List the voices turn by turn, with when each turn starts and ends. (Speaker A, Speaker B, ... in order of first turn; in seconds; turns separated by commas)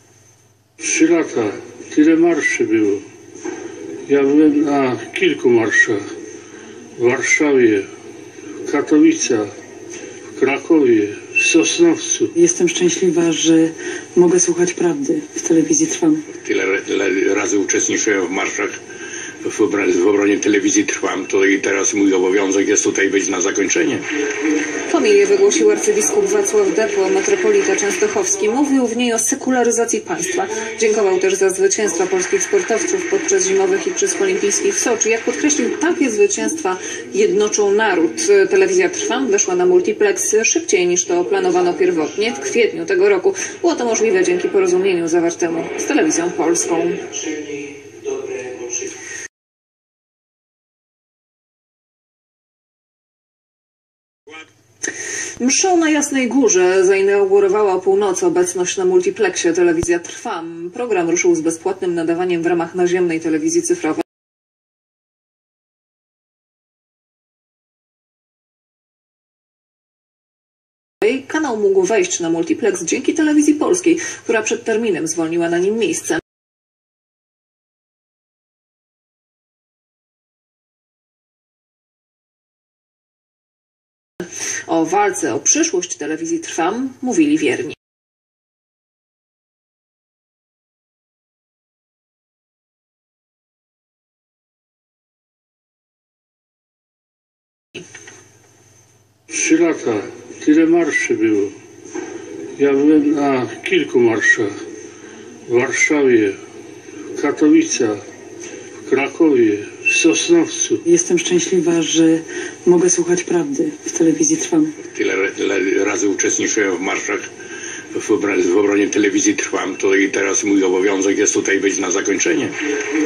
Speaker A: 0.8-3.0, Speaker A: 4.1-6.0, Speaker A: 7.0-7.9, Speaker A: 8.7-9.5, Speaker A: 10.3-12.3, Speaker B: 12.4-16.3, Speaker C: 16.4-18.8, Speaker C: 19.4-24.1, Speaker D: 24.9-47.7, Speaker D: 55.4-64.0, Speaker D: 71.0-76.2, Speaker D: 84.7-87.8, Speaker A: 99.3-101.5, Speaker A: 102.6-104.5, Speaker A: 105.5-106.4, Speaker A: 107.2-108.0, Speaker A: 108.8-110.8, Speaker B: 110.9-114.8, Speaker C: 114.8-117.3, Speaker C: 117.9-122.6